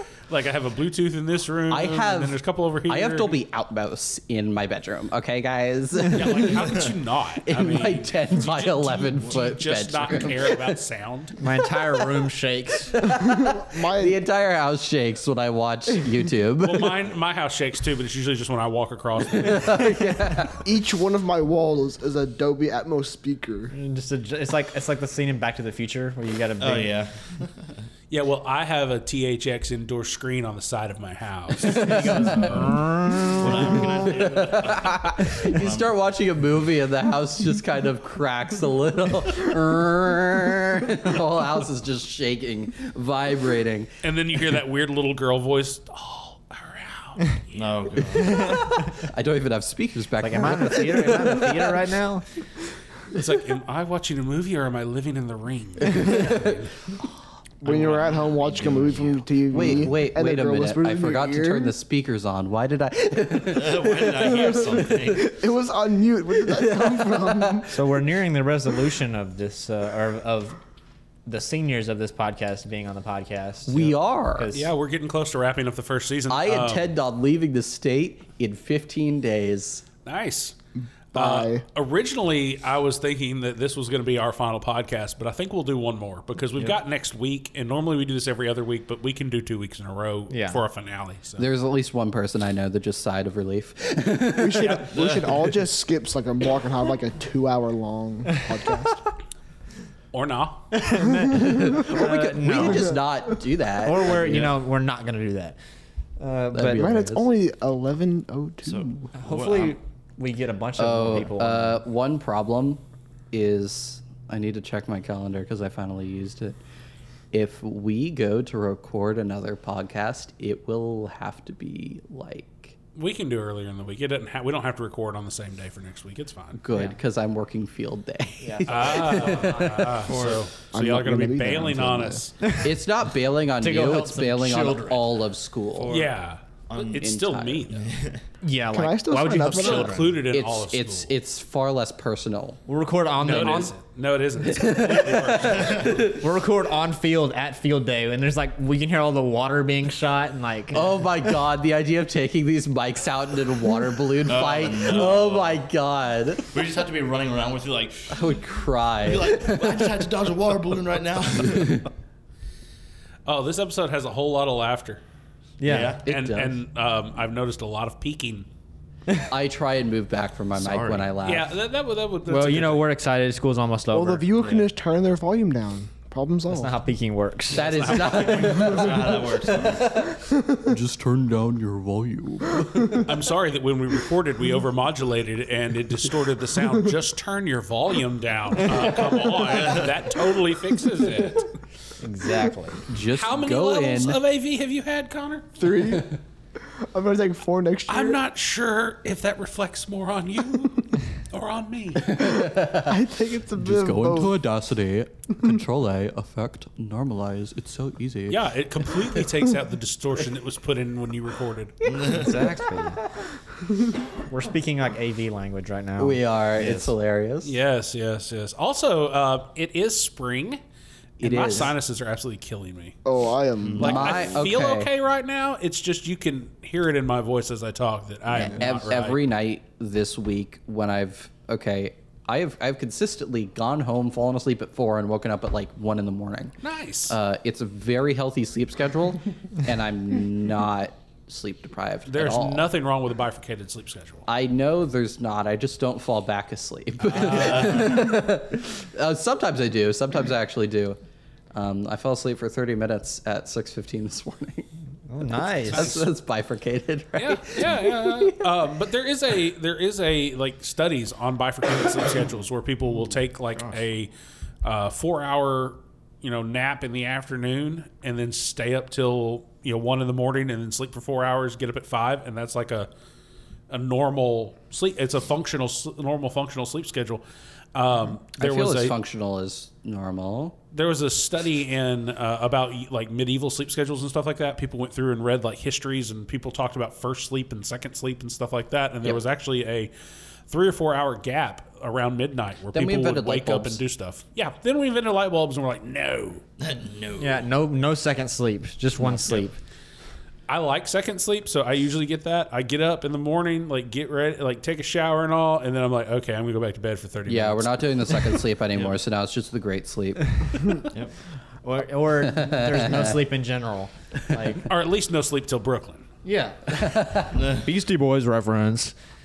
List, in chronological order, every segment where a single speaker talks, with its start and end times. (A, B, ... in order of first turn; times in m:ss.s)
0:00.3-0:03.4 A
0:01.7-0:06.7 B
0:06.1-0:11.3 A
0:07.4-0:10.8 B
0:11.4-0:12.9 C
0:12.9-0:17.0 B
0:13.2-0:14.2 D
0:16.6-0:19.9 A
0:19.3-0:20.6 B
0:20.6-0:23.7 D
0:23.7-0:27.0 C
0:26.6-0:27.7 E
0:28.1-0:32.8 A
0:31.6-0:43.9 B
0:32.3-0:33.4 C
0:33.4-0:36.0 E
0:44.0-0:47.6 A
0:47.5-0:48.6 E
0:48.4-0:51.8 B
0:50.2-0:52.2 C
0:53.1-0:56.7 A
0:56.0-0:56.4 B
0:57.6-1:01.7 D
0:57.6-0:59.2 E
0:59.5-1:05.1 B
1:03.4-1:05.3 E
1:04.8-1:07.7 D
1:06.4-1:07.7 B
1:07.7-1:10.6 C
1:11.2-1:14.7 C
1:13.7-1:14.5 B
1:14.5-1:16.9 A
1:16.3-1:19.8 B
1:20.0-1:20.5 A
1:21.1-1:21.6 D
1:21.1-1:31.4 A
1:30.3-1:30.6 C
1:31.4-1:34.8 B
1:34.3-1:39.1 D
1:34.8-1:35.5 E
1:40.1-1:40.7 A
1:40.7-1:43.0 C
1:41.2-1:44.5 B
1:42.6-1:42.9 D
1:43.8-1:45.6 C
1:46.2-1:46.9 C
1:46.5-1:47.3 B
1:46.7-1:49.1 D
1:48.6-1:49.8 E
1:49.1-1:51.8 C
1:50.8-1:52.8 B
1:53.3-1:56.6 B
1:57.3-2:02.8 B
2:03.0-2:06.6 A
2:06.6-2:10.1 B
2:06.7-2:07.0 C
2:08.4-2:09.9 C
2:08.7-2:12.4 A
2:10.0-2:10.5 E
2:10.7-2:12.2 D
2:12.6-2:16.0 B
2:13.6-2:15.1 C
2:15.7-2:16.1 E
2:15.9-2:17.9 A
2:16.7-2:17.1 E
2:17.0-2:17.7 B
2:17.7-2:18.2 E
2:18.4-2:20.1 C
2:18.7-2:20.1 D
2:19.5-2:21.1 A
2:20.3-2:22.6 B
2:22.7-2:23.7 C
2:23.2-2:26.0 A
2:23.3-2:23.7 B
2:24.4-2:26.2 B
2:25.6-2:25.9 E
2:26.0-2:30.9 C
2:30.7-2:36.5 B
2:34.2-2:35.6 E
2:36.5-2:38.3 E
2:38.1-2:40.1 B
2:39.0-2:41.8 E
2:41.6-2:41.8 B
2:43.2-2:45.0 A
2:45.6-2:46.0 C
2:45.6-2:46.0 E
2:46.0-2:46.6 B
2:46.1-2:48.5 A
2:49.3-2:51.5 B
2:50.5-2:51.2 E
2:51.2-2:52.8 A
2:52.3-2:54.6 C
2:53.9-2:56.7 D
2:56.5-2:57.7 C
2:57.5-3:03.1 B
2:57.5-2:58.8 A
2:57.9-3:00.0 E
3:00.2-3:00.7 D
3:03.0-3:11.5 A
3:12.0-3:12.8 C
3:12.9-3:14.2 B
3:13.1-3:15.6 A
3:15.6-3:16.2 D
3:16.8-3:18.2 D
3:17.9-3:22.3 A
3:22.0-3:23.0 B
3:22.6-3:24.4 D
3:23.6-3:29.2 B
3:28.3-3:31.8 A
3:31.8-3:32.5 E
3:32.1-3:33.0 C
3:34.3-3:36.2 C
3:36.0-3:37.6 B
3:36.5-3:36.9 E
3:37.4-3:40.6 A
3:41.2-3:41.7 B
3:41.2-3:43.0 A
3:43.0-3:44.1 D
3:43.6-3:44.2 E
3:43.8-3:44.9 B
3:43.8-3:49.2 A
3:48.4-3:56.5 B
3:56.6-3:57.2 A
3:57.1-4:02.7 B
4:02.1-4:04.3 A
4:04.3-4:11.0 B
4:07.1-4:08.1 E
4:07.1-4:07.7 A
4:11.5-4:14.7 B
4:15.1-4:15.9 C
4:15.6-4:18.4 B
4:15.7-4:16.1 A
4:17.2-4:24.1 A
4:24.6-4:32.9 A
4:33.7-4:37.2 A
4:37.7-4:39.0 A
4:38.4-4:40.6 B
4:40.7-4:49.9 A
4:50.5-4:56.4 A
4:52.7-4:53.8 B
4:56.6-4:57.5 E
4:57.2-4:59.6 C
5:00.5-5:08.3 A
5:07.3-5:10.8 B
5:11.6-5:14.7 C
5:12.3-5:13.2 B
5:14.7-5:16.1 A
5:16.2-5:18.9 C
5:16.7-5:17.4 B
5:17.3-5:17.7 E